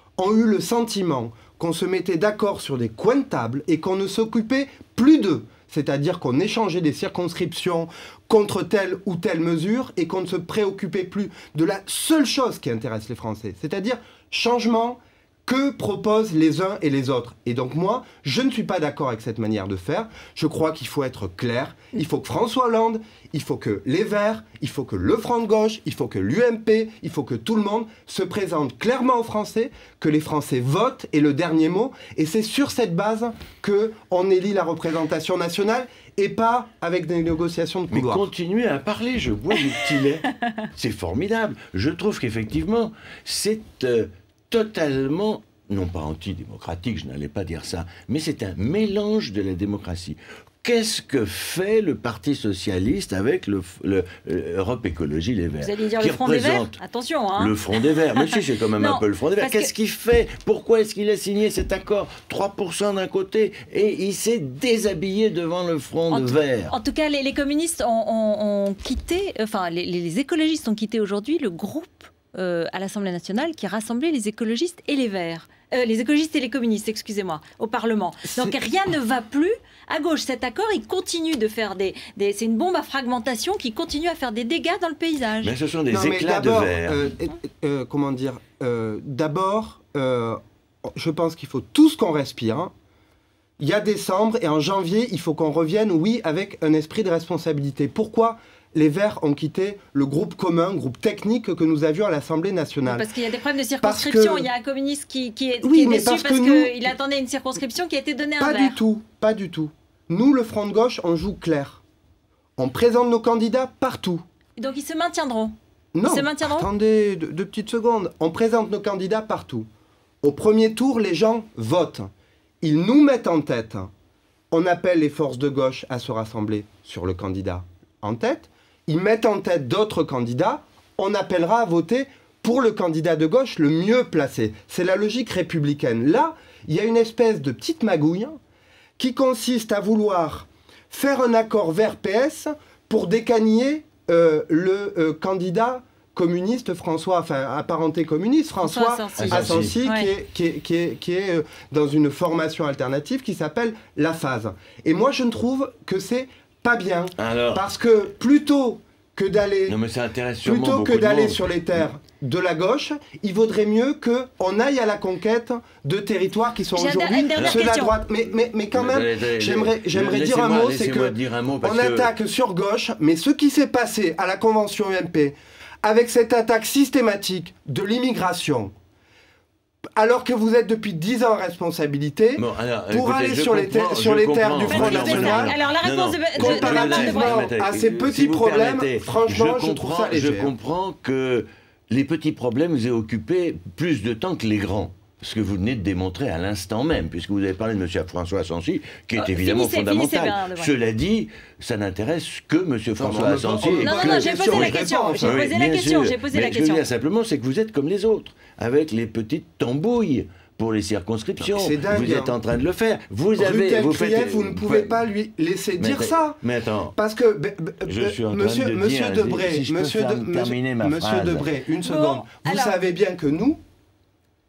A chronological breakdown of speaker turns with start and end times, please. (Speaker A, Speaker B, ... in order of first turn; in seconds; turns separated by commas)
Speaker A: 0.2-38.3, Speaker B: 37.9-56.8, Speaker C: 55.6-59.7, Speaker B: 57.4-66.7, Speaker C: 66.1-85.5, Speaker B: 85.4-87.1, Speaker A: 85.9-90.4, Speaker A: 90.9-92.7, Speaker A: 93.6-103.1, Speaker C: 102.8-108.8, Speaker A: 103.8-104.5, Speaker A: 105.6-106.9, Speaker A: 108.4-111.8, Speaker A: 112.6-114.2, Speaker C: 114.6-116.7, Speaker A: 115.9-119.7, Speaker A: 120.2-122.1, Speaker A: 122.6-123.9, Speaker A: 124.5-138.3, Speaker A: 139.0-159.8, Speaker C: 148.6-150.1, Speaker B: 149.2-149.8, Speaker B: 157.2-157.6, Speaker B: 159.7-161.8, Speaker A: 160.4-178.7, Speaker C: 166.7-167.9, Speaker B: 167.3-167.7, Speaker B: 168.7-172.1, Speaker A: 179.9-185.6, Speaker B: 182.3-215.1, Speaker C: 184.6-187.5, Speaker A: 186.3-190.5, Speaker C: 199.2-200.8, Speaker A: 203.0-205.4, Speaker C: 203.8-206.8, Speaker A: 211.4-212.4, Speaker A: 213.4-216.4, Speaker B: 215.8-216.9, Speaker A: 216.9-223.6, Speaker B: 217.8-221.5, Speaker C: 221.8-222.8